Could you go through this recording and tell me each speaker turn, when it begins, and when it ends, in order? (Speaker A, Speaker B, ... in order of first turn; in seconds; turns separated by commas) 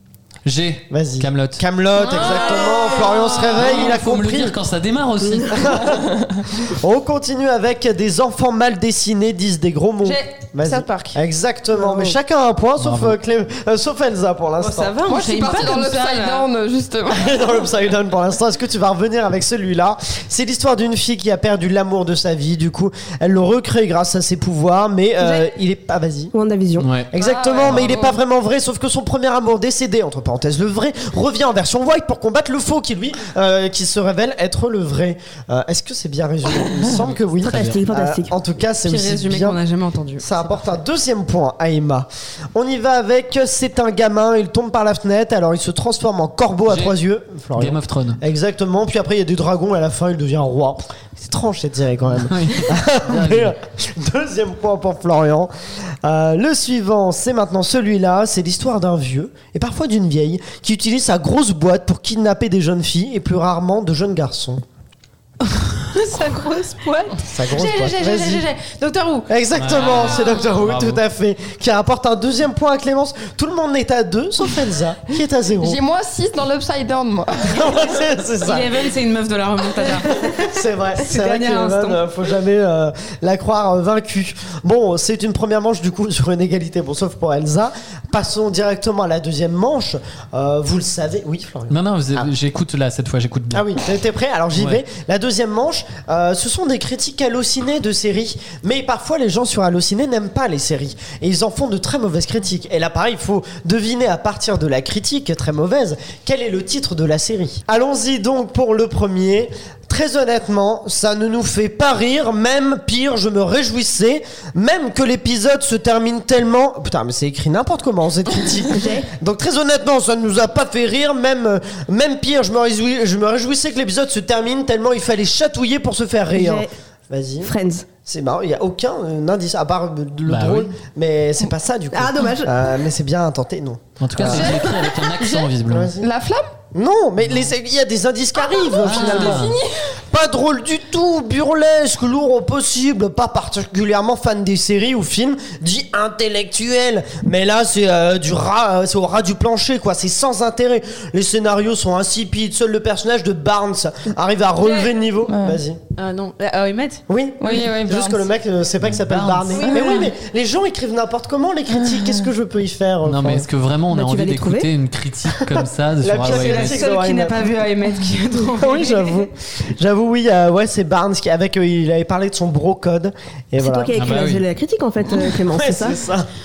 Speaker A: 0.5-1.6, Speaker B: 0.9-4.6, Speaker C: 2.0-3.8, Speaker D: 2.2-3.2, Speaker A: 3.5-5.8, Speaker B: 5.5-15.0, Speaker D: 5.9-6.4, Speaker C: 10.1-11.0, Speaker A: 12.8-13.2, Speaker C: 14.6-16.5, Speaker D: 15.1-17.3, Speaker B: 17.1-26.3, Speaker E: 26.3-26.9, Speaker A: 26.8-27.1, Speaker B: 27.1-39.6, Speaker D: 27.2-28.2, Speaker A: 37.0-37.8, Speaker E: 37.4-38.3, Speaker C: 38.9-40.7, Speaker B: 40.2-55.5, Speaker A: 46.7-47.0, Speaker A: 47.6-48.2, Speaker A: 52.2-53.5, Speaker B: 56.0-64.6, Speaker C: 65.4-69.3, Speaker B: 67.3-68.5, Speaker B: 69.3-75.8, Speaker A: 69.5-71.0, Speaker C: 70.0-70.5, Speaker D: 75.6-77.7, Speaker B: 77.4-78.9, Speaker C: 78.4-82.0, Speaker B: 80.2-92.3, Speaker A: 91.7-93.7, Speaker B: 93.5-127.5, Speaker A: 94.6-94.8, Speaker E: 118.7-119.1, Speaker E: 126.3-126.7, Speaker E: 127.4-127.9, Speaker B: 128.1-134.7, Speaker A: 130.3-130.7, Speaker E: 131.9-132.7, Speaker A: 134.0-135.9, Speaker D: 134.2-136.5, Speaker B: 135.7-136.1, Speaker B: 136.7-155.8, Speaker D: 138.4-139.9, Speaker A: 138.8-139.6, Speaker C: 154.6-154.9, Speaker D: 155.3-155.6, Speaker C: 156.0-157.0, Speaker B: 157.1-163.5, Speaker D: 157.4-158.3, Speaker A: 158.9-159.8, Speaker C: 159.5-160.1, Speaker D: 161.7-162.3, Speaker A: 163.1-166.8, Speaker E: 163.9-164.7, Speaker B: 165.4-167.6, Speaker C: 166.2-169.3, Speaker B: 168.5-174.0, Speaker E: 173.6-176.0, Speaker A: 173.9-174.4, Speaker B: 175.3-176.3